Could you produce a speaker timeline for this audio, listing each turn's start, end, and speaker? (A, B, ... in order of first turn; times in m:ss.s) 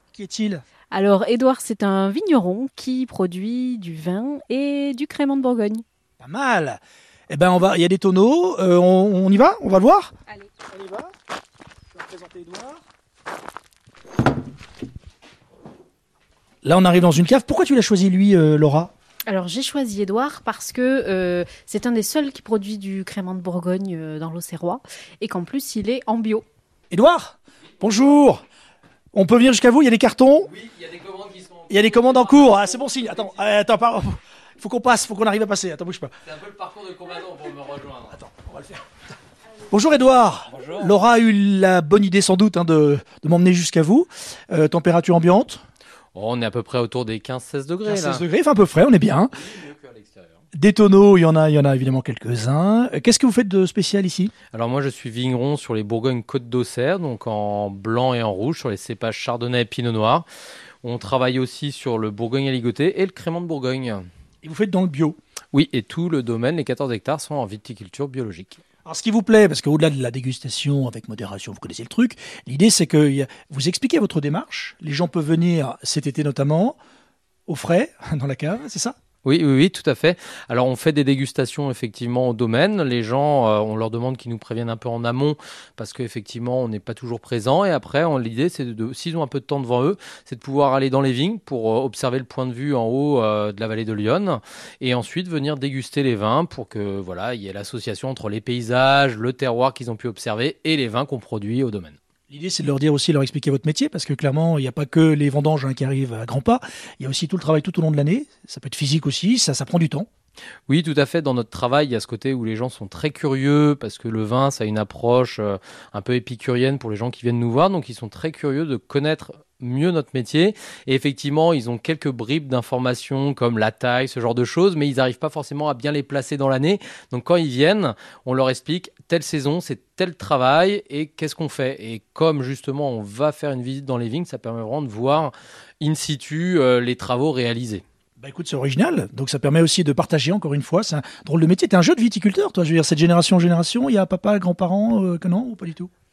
0:00.1-0:00.7 A
0:00.9-0:05.8 B
0:06.2-0:11.1 A
0:11.9-0:12.8 A
0:16.6-0:18.9 A
0:19.3-0:26.4 B
0:26.9-0:28.4 A
0:29.1-0:30.5 A
0:30.5-0:32.9 C
0:31.7-0:36.1 A
0:36.2-0:38.2 C
0:38.1-0:38.8 A
0:39.7-0:45.6 A
0:40.5-0:41.0 C
0:46.2-0:48.2 C
0:47.8-0:49.3 A
0:49.3-0:50.4 C
0:50.5-0:54.3 A
0:54.5-1:00.3 C
1:00.8-1:04.0 C
1:04.4-1:05.2 A
1:05.5-1:08.6 C
1:08.8-1:16.8 A
1:17.5-1:19.0 A
1:19.2-1:42.0 C
1:42.3-1:50.1 A
1:50.7-2:17.8 C
2:18.2-2:25.9 A